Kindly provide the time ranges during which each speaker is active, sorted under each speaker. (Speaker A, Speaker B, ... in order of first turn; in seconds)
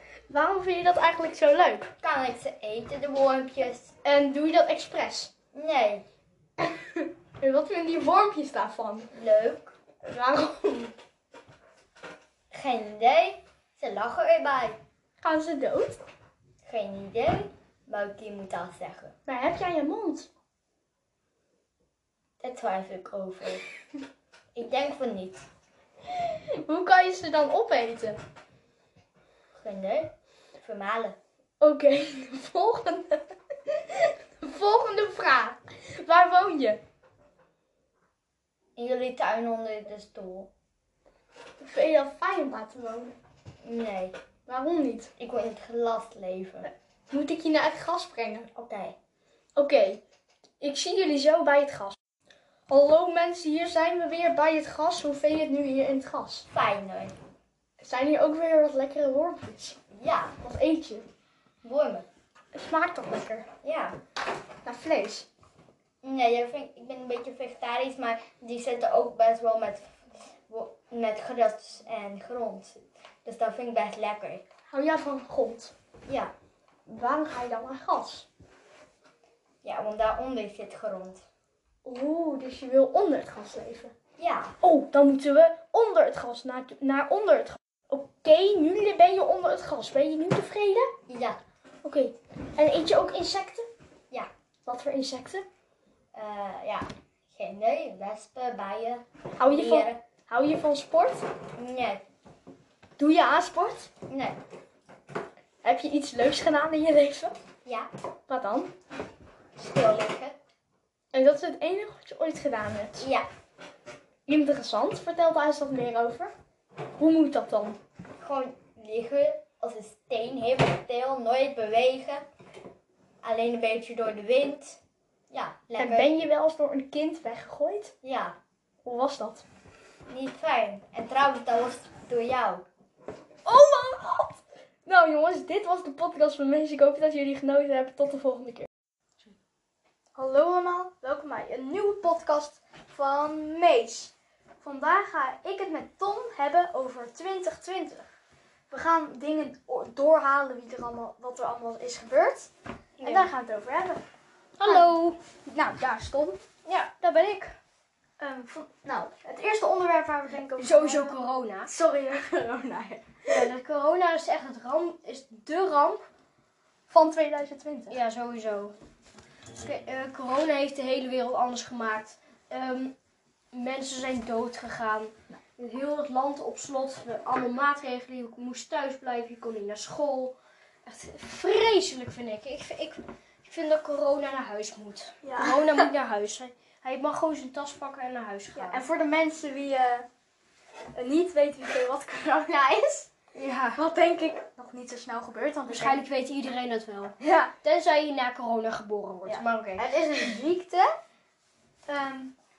Speaker A: 0.3-1.9, 4.0-5.3, 7.4-9.1, 10.0-10.9, 15.2-16.0, 19.2-20.3, 26.6-28.2, 31.6-36.8, 41.6-43.2, 44.5-45.1, 47.1-48.5, 49.5-50.0, 50.6-52.0, 52.7-56.5, 57.8-59.8, 60.4-61.0, 62.5-63.5, 64.6-65.3, 74.7-75.7, 76.9-78.3, 81.8-83.9, 84.6-90.9, 91.8-93.7, 94.6-95.4, 99.4-101.3, 103.0-103.9, 105.6-107.3, 108.3-108.7, 111.1-113.1, 114.3-116.3, 117.0-117.8, 125.8-127.9, 128.8-129.4, 133.4-138.7, 140.2-148.0, 148.7-152.5, 153.0-154.0, 154.6-154.9, 155.4-156.4, 158.2-163.5, 166.9-168.0, 185.2-185.9, 188.5-190.1, 190.9-193.0, 193.7-196.0, 197.2-197.5, 199.2-200.9, 201.9-202.3
Speaker B: 2.0-3.9, 5.5-6.0, 9.1-9.8, 12.5-14.8, 16.6-19.1, 22.4-23.6, 24.5-25.4, 29.5-31.1, 38.8-40.5, 43.6-44.2, 45.2-46.7, 48.5-48.9, 56.5-57.2, 59.9-60.4, 61.6-62.1, 63.6-64.0, 66.0-69.9, 70.5-74.4, 76.0-76.3, 79.6-81.2, 84.2-84.6, 91.1-91.4, 96.1-100.0, 101.5-102.0, 104.1-104.4, 107.6-107.9, 109.6-110.4, 113.0-113.3, 118.2-122.2, 123.2-124.8, 125.3-126.1, 128.0-128.4, 130.1-132.7, 192.7-193.1
Speaker C: 153.0-153.3, 154.6-155.2, 156.7-157.6, 160.6-161.7, 163.3-166.1, 167.9-168.8, 169.5-172.9, 173.5-188.8, 193.3-193.8, 195.7-200.4